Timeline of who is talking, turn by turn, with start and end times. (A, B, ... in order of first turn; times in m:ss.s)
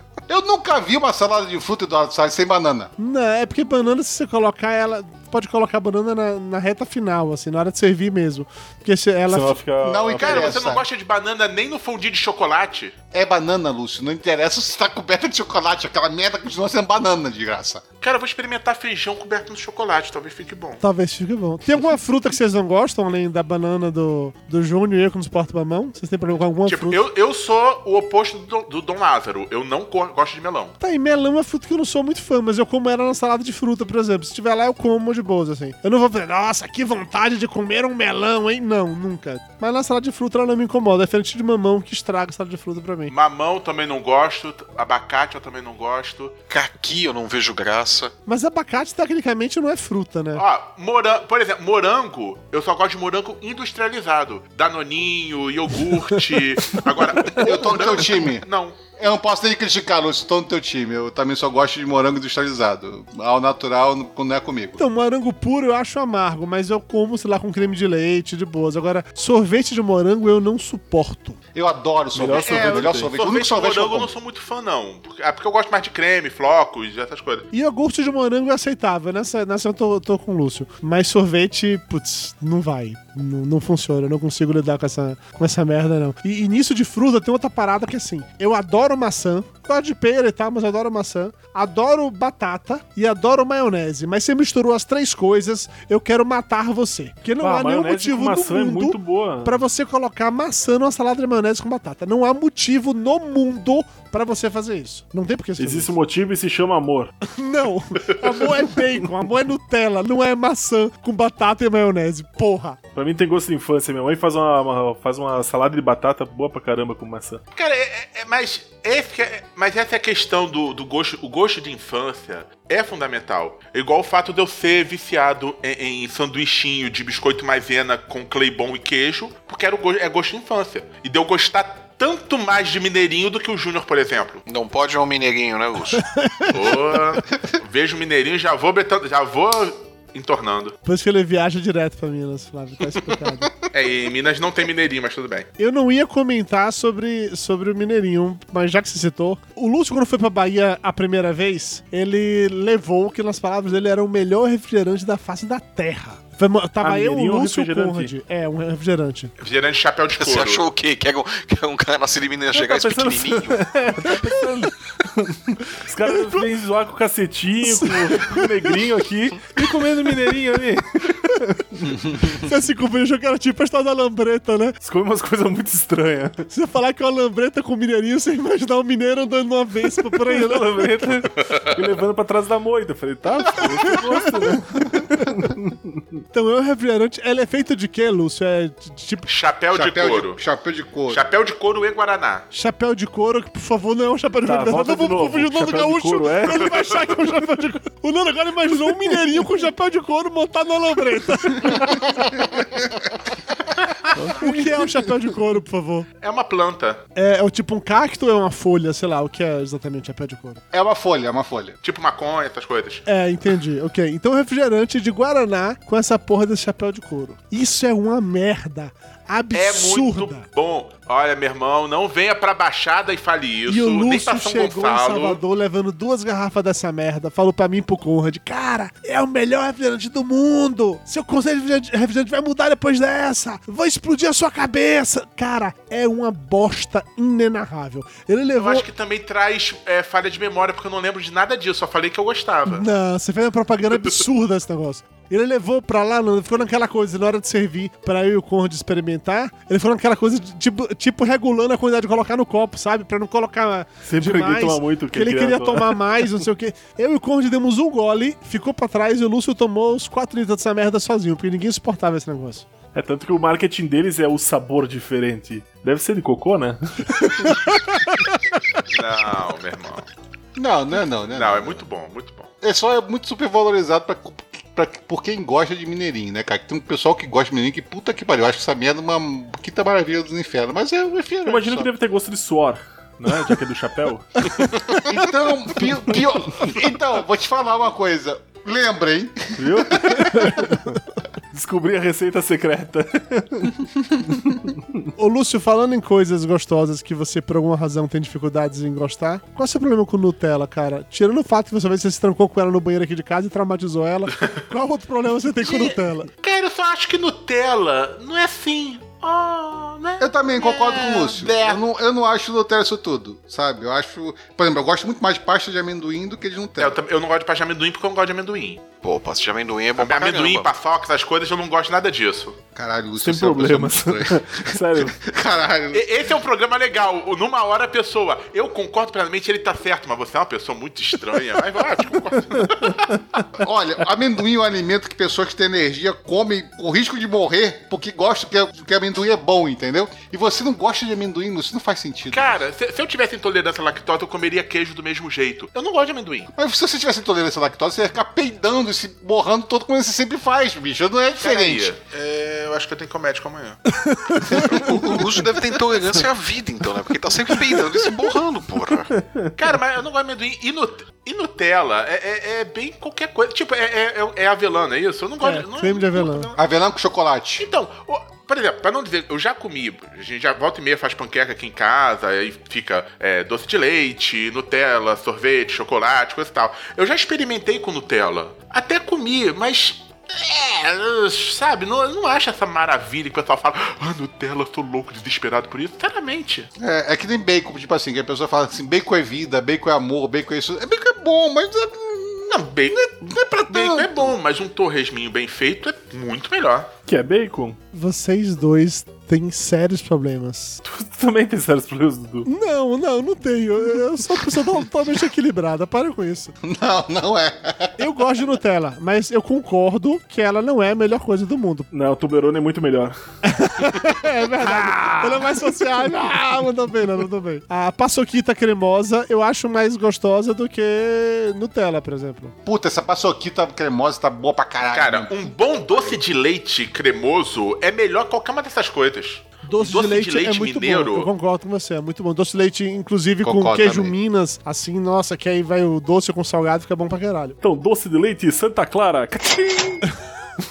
0:00.3-0:02.9 A
0:03.0-0:09.6 B
0:09.3-0:10.5 C
0:09.8-0:10.9 A
0:10.2-0:13.0 D
0:13.1-0:17.8 A
0:18.0-0:20.8 D
0:20.8-0:27.1 B
0:26.7-0:30.8 D
0:30.8-0:43.1 B
0:43.1-0:46.4 D
0:46.5-0:48.1 E
0:48.3-0:50.4 B
0:50.3-0:58.8 D
0:55.9-0:58.1 B
0:57.4-0:58.4 A
0:59.0-1:04.8 A
1:04.8-1:11.4 B
1:11.6-1:14.1 A
1:12.1-1:13.1 C
1:12.3-1:17.5 D
1:17.5-1:45.9 B
1:37.4-1:39.6 C
1:45.6-1:47.1 C
1:47.2-1:52.8 B
1:53.0-1:57.4 C
1:57.5-2:14.4 D
2:14.5-2:16.0 E
2:16.0-2:17.2 B
2:16.5-2:20.8 D
2:20.8-2:23.5 B
2:23.7-2:25.5 D
2:25.6-2:39.3 B
2:36.8-2:38.1 C
2:39.4-2:40.6 D
2:40.1-2:43.6 E
2:42.5-2:52.2 C
2:46.1-2:46.4 B
2:47.6-2:48.7 B
2:52.4-2:54.8 B
2:54.8-2:56.4 C
2:56.5-3:00.9 B
3:00.3-3:06.0 C
3:03.8-3:04.6 B
3:06.3-3:09.3 B
3:09.3-3:10.4 D
3:09.7-3:11.3 A
3:11.1-3:12.5 D
3:12.5-3:22.2 B
3:14.4-3:16.7 C
3:24.1-3:24.8 C
3:24.3-3:26.1 B
3:26.2-3:27.0 D
3:27.2-3:30.6 B
3:30.7-3:31.8 A
3:31.8-3:33.0 D
3:33.1-3:40.5 B
3:39.5-3:45.4 D
3:43.7-3:58.9 B
3:58.6-4:02.9 D
4:02.7-4:22.7 B
4:14.1-4:16.0 C
4:22.9-4:27.6 C
4:27.5-4:28.0 B
4:28.9-4:30.0 D
4:30.6-4:31.8 A
4:31.3-4:32.5 D
4:32.6-4:41.9 A
4:41.4-4:44.8 C
4:44.8-4:50.6 A
4:49.6-4:51.0 C
4:51.5-4:53.7 C
4:54.5-4:55.1 C
4:55.2-5:06.3 B
5:04.3-5:04.6 D
5:05.6-5:11.8 D
5:10.2-5:17.0 A
5:16.8-5:18.8 D
5:19.0-5:20.7 E
5:20.0-5:22.6 D
5:22.8-5:26.3 A
5:23.2-5:25.2 C
5:25.9-5:33.2 D
5:33.6-5:42.6 A
5:42.3-5:46.5 D
5:46.5-5:52.0 A
5:51.4-5:53.8 D
5:54.0-5:54.6 B
5:54.5-5:55.1 A
5:54.6-5:59.1 E
5:59.2-5:59.5 C
5:59.6-6:06.6 D
6:05.4-6:06.5 B
6:06.6-6:07.6 A
6:07.6-6:26.7 D
6:26.8-6:34.4 A
6:32.5-6:36.9 D
6:37.1-6:37.8 C
6:37.9-6:40.8 B
6:40.8-6:42.5 C
6:42.4-6:46.6 B
6:46.6-6:48.0 A
6:48.0-6:51.9 B
6:51.9-6:53.2 C
6:53.4-7:02.6 B
6:54.9-6:55.2 C
7:02.6-7:06.2 A
7:04.9-7:11.3 D
7:09.6-7:17.6 B
7:13.4-7:14.2 A
7:17.6-7:20.1 C